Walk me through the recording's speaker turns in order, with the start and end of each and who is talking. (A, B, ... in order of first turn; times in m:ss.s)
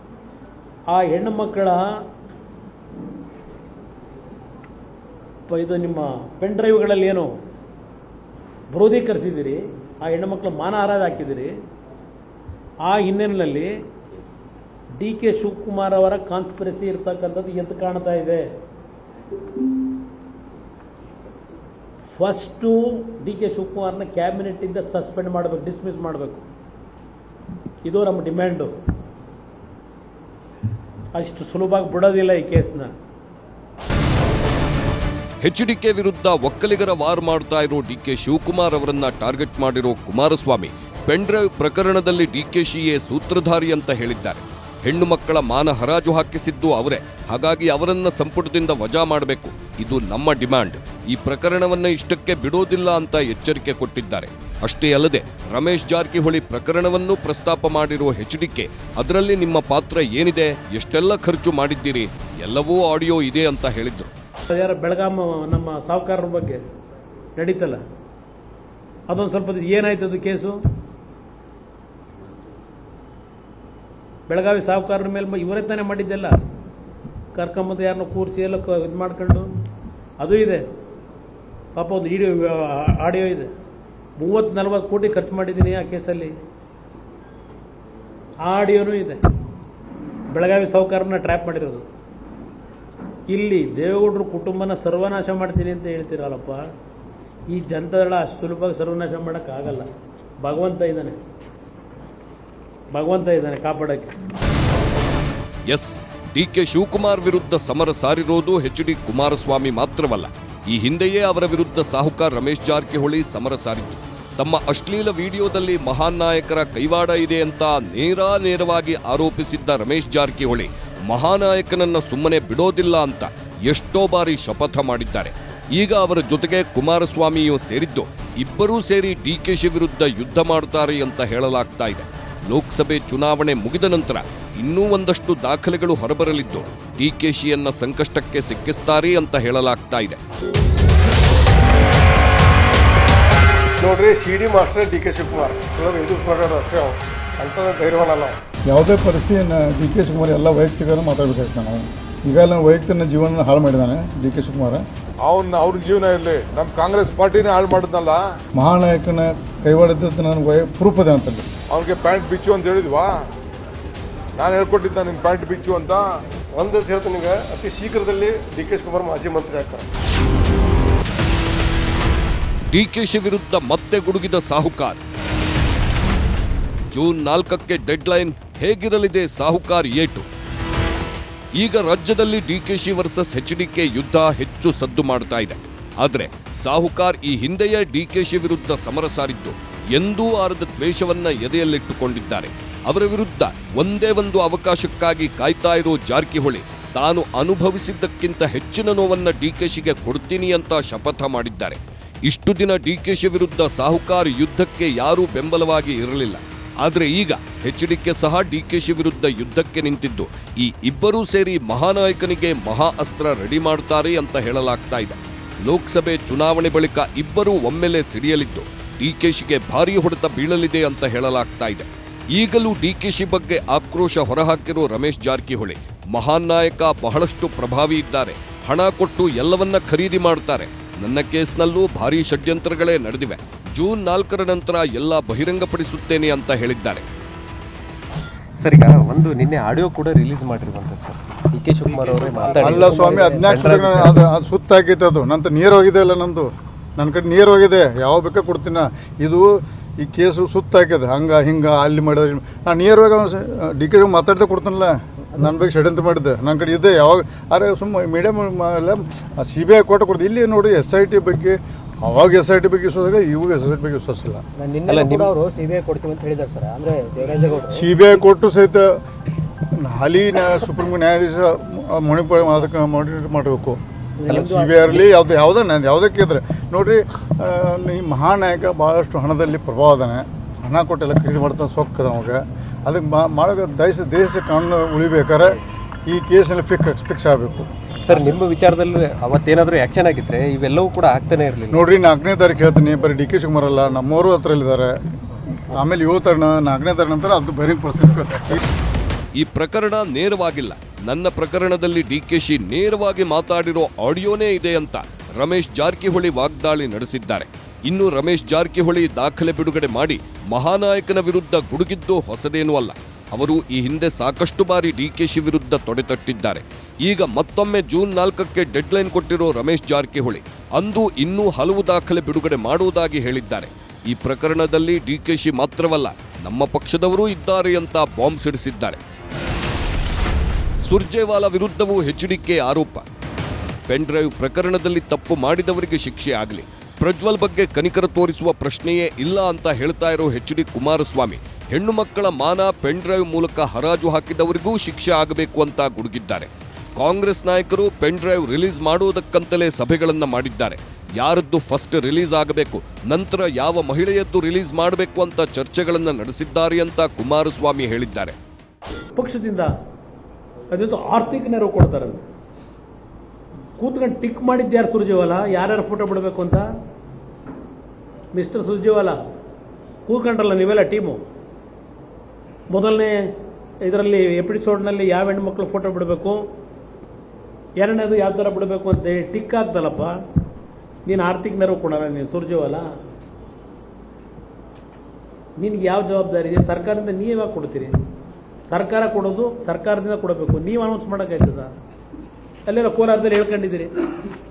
0:00.9-0:01.8 A
0:05.5-0:07.3 A
0:08.7-0:11.5 A
0:12.8-0:13.7 A
0:15.0-0:18.4 A
0:22.1-0:26.4 A
0:27.8-0:28.7 A
0:31.2-0:32.9 A
0:35.4-1:04.1 B
1:04.5-1:06.6 A
1:07.4-1:07.8 A
1:09.1-1:10.6 A
1:14.3-1:16.3 A
1:17.3-1:19.5 A
1:20.2-1:20.6 A
1:21.7-1:23.5 A
1:24.2-1:26.3 A
1:28.4-1:29.2 A
1:30.3-1:31.8 A
1:33.3-1:36.6 A
1:37.5-1:39.9 A
1:40.4-1:41.2 A
1:42.9-1:44.1 A
1:45.7-2:20.2 B
2:23.8-2:26.9 C
2:27.4-2:34.8 C
2:35.2-2:38.2 D
2:38.5-2:41.4 C
2:41.7-2:43.2 D
2:44.4-2:46.0 D
2:46.6-2:49.8 C
2:52.7-2:55.0 B
2:56.9-3:00.2 B
3:01.6-3:57.0 B
3:58.6-4:04.1 E
4:02.0-4:03.5 F
4:02.4-4:24.4 C
4:24.6-4:27.8 F
4:24.9-4:25.3 E
4:27.7-4:29.0 C
4:29.8-4:48.4 C
4:34.2-4:35.0 F
4:48.1-4:51.8 E
4:51.7-4:54.9 C
4:55.7-4:58.6 C
4:59.4-5:29.0 B
5:30.8-5:33.0 B
5:33.9-5:58.3 B
5:59.2-5:59.7 A
6:00.7-6:02.2 A
6:03.8-6:06.6 A
6:08.3-6:09.2 A
6:10.1-6:11.2 A
6:12.7-6:13.2 A
6:13.8-6:16.4 A
6:17.8-6:20.1 A
6:21.0-6:22.9 A
6:25.6-6:27.9 A
6:28.7-6:31.7 A
6:32.7-6:33.9 A